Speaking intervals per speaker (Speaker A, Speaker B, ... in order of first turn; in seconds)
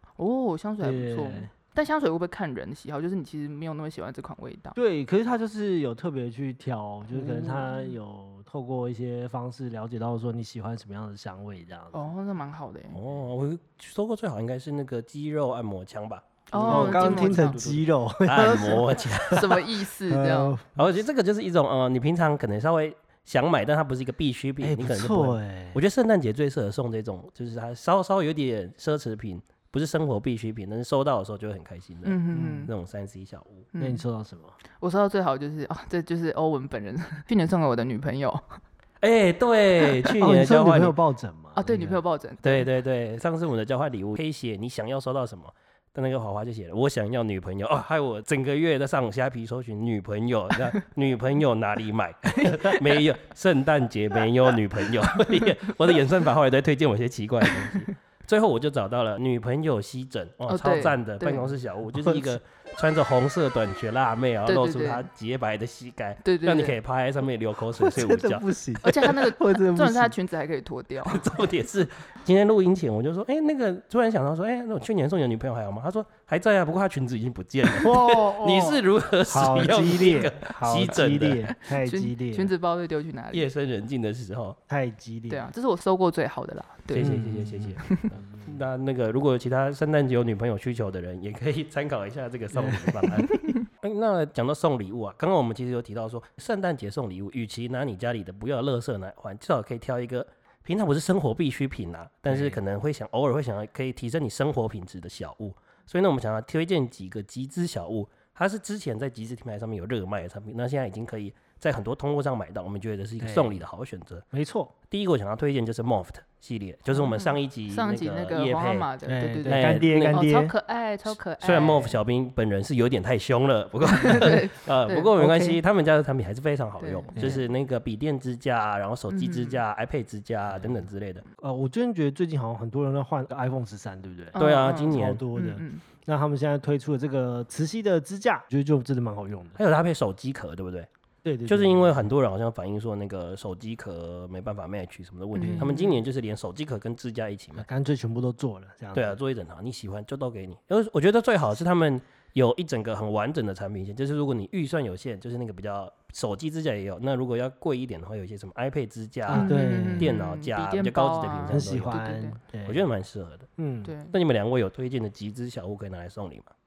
Speaker A: 0.2-4.8, 7.2-7.9, 11.9-13.0, 16.5-17.6, 19.3-20.6, 32.0-32.7, 33.7-34.0, 34.8-38.6, 41.5-42.7, 52.4-52.9, 60.5-61.5, 64.5-65.1, 66.2-66.8, 68.8-71.3, 81.6-83.5, 85.3-87.2, 87.8-88.1, 93.3-93.6, 116.9-122.0, 123.8-125.1, 126.8-127.4, 129.1-129.6, 134.3-135.8, 145.3-145.9, 159.3-162.4, 163.8-164.1
Speaker B: 0.8-1.5, 4.7-12.0, 16.6-20.8, 24.6-25.8, 32.3-32.7, 33.8-34.6, 40.2-42.0, 61.9-62.3, 67.7-70.1, 77.7-82.5, 84.7-85.5, 87.0-88.6, 92.5-93.2, 102.3-102.6, 113.2-113.6, 114.3-114.7, 119.0-120.5, 125.2-125.6, 127.2-127.4, 130.5-130.9, 131.4-139.6, 141.2-142.1, 145.4-145.7, 147.6-149.2, 159.3-160.1, 161.5-162.8, 163.6-163.9
Speaker C: 12.9-19.6, 20.8-33.7, 39.0-40.9, 42.4-68.5, 71.0-81.5, 83.3-84.6, 86.9-114.2, 114.9-118.9, 119.5-120.2, 121.4-131.2, 134.3-135.2, 139.6-140.9, 141.4-147.7, 148.9-162.0, 162.6-163.5, 164.1-166.5